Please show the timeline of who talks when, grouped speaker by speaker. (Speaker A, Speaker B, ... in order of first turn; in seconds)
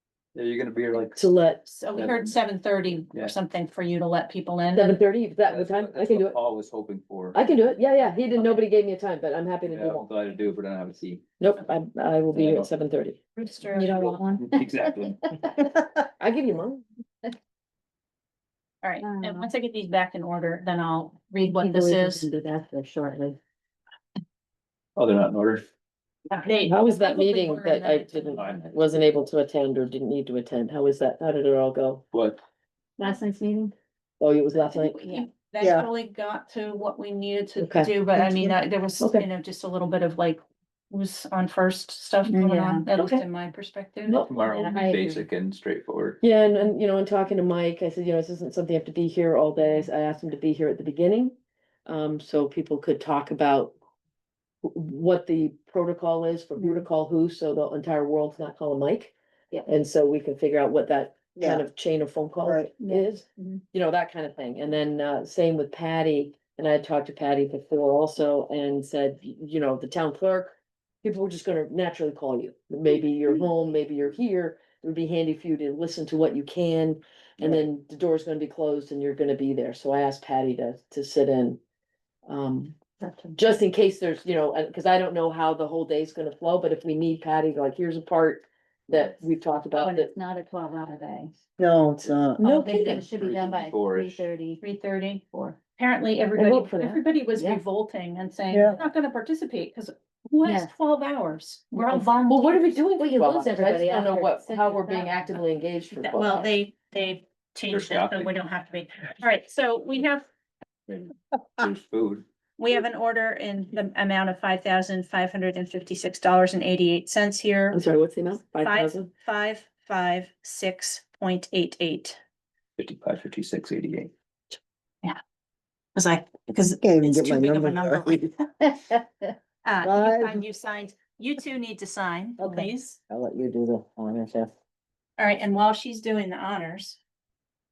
Speaker A: 0.3-1.3, 1.9-2.3, 5.5-7.4, 9.7-11.2, 12.3-12.7, 14.4-15.5, 25.0-25.6, 28.4-28.8, 32.1-32.4, 44.2-46.2, 93.0-94.3, 107.7-108.3, 110.9-112.2, 122.8-124.1
Speaker B: 1.1-1.8, 4.7-6.4, 7.3-10.1, 11.4-13.2, 16.2-16.9, 26.6-32.1, 34.2-35.2, 37.6-39.3, 43.0-43.2, 46.2-51.4, 51.9-53.8, 54.6-59.1, 59.7-81.6, 82.3-82.8, 83.4-90.1, 92.4-93.0, 96.3-97.0, 101.9-106.5, 117.7-119.1
Speaker C: 1.6-5.0, 13.4-14.2, 18.8-22.3, 26.3-29.0, 34.6-45.2, 92.4-93.0, 94.6-102.7, 105.9-110.3, 112.6-117.8, 118.6-122.2, 126.0-128.3, 129.6-133.0, 135.2-137.0
Speaker D: 7.4-8.6, 13.7-15.4, 19.0-19.5, 21.4-23.4, 33.0-33.7, 42.3-42.9, 44.4-45.2, 56.6-56.9, 62.8-63.6, 83.0-83.5, 89.8-91.3, 92.4-94.6, 95.3-95.6, 97.4-97.6, 100.4-100.7, 101.8-105.4
Speaker E: 35.6-35.9, 61.4-61.7, 62.4-62.7, 91.6-92.4, 98.5-98.8, 126.5-128.3, 129.8-130.4, 132.4-134.5